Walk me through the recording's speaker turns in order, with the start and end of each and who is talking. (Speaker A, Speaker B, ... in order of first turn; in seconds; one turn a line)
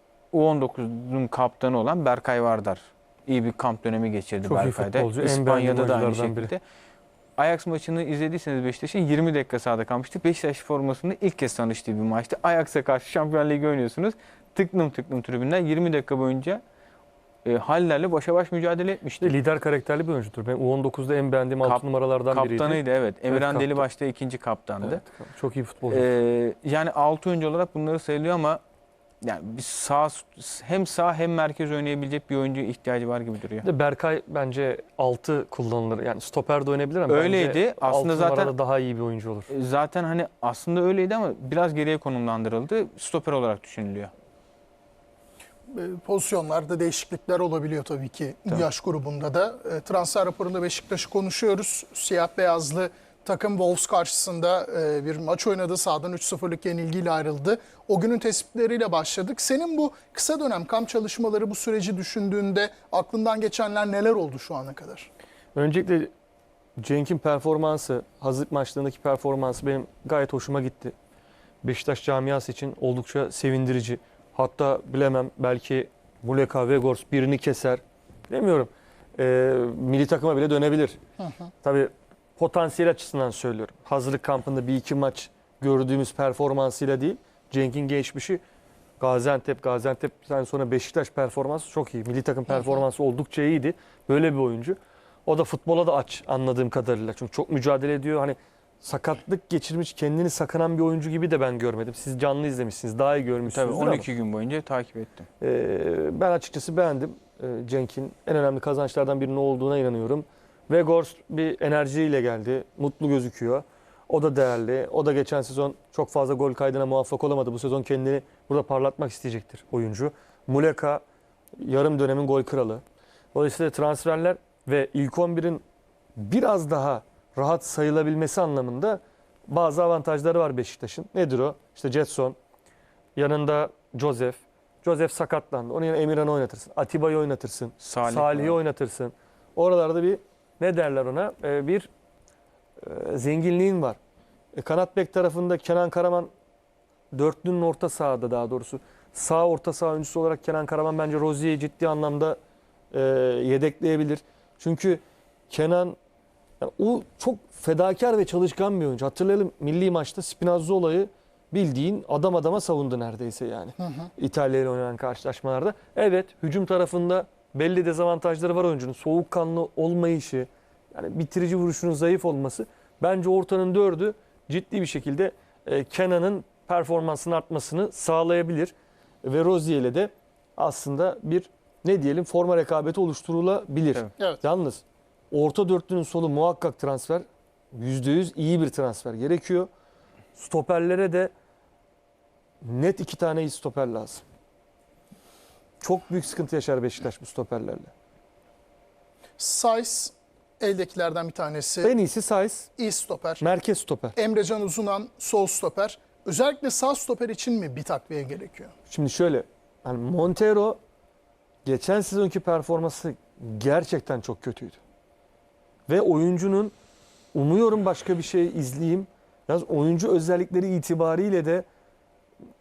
Speaker A: 0.3-6.6
Speaker B: 4.4-6.5
Speaker A: 7.4-16.6
Speaker A: 17.4-19.3
Speaker B: 19.2-23.8
Speaker A: 21.6-25.0
Speaker B: 24.8-26.1
Speaker A: 25.9-28.6
Speaker A: 29.2-33.6
Speaker B: 33.6-39.5
Speaker A: 37.1-38.5
Speaker A: 39.5-44.1
Speaker C: 45.7-65.1
Speaker B: 65.5-66.1
Speaker B: 66.8-70.9
Speaker B: 71.6-81.0
Speaker B: 81.6-88.4
Speaker B: 89.0-104.1
Speaker A: 103.5-105.3
Speaker B: 105.4-121.0
Speaker B: 121.6-125.6
Speaker B: 126.2-132.4
Speaker B: 133.2-141.9
Speaker A: 137.8-138.6
Speaker B: 142.8-144.0
Speaker B: 144.5-146.3
Speaker B: 147.1-152.4
Speaker B: 152.9-156.0
Speaker B: 156.6-189.7
Speaker C: 163.8-164.1
Speaker B: 190.3-191.3
Speaker B: 192.6-194.2
Speaker B: 195.8-197.9
Speaker C: 199.4-201.9
Speaker B: 201.8-202.7
Speaker C: 202.8-203.4
Speaker B: 203.4-204.1
Speaker C: 204.2-208.7
Speaker B: 208.9-210.8
Speaker B: 211.6-214.8
Speaker B: 215.9-216.7
Speaker B: 217.3-221.6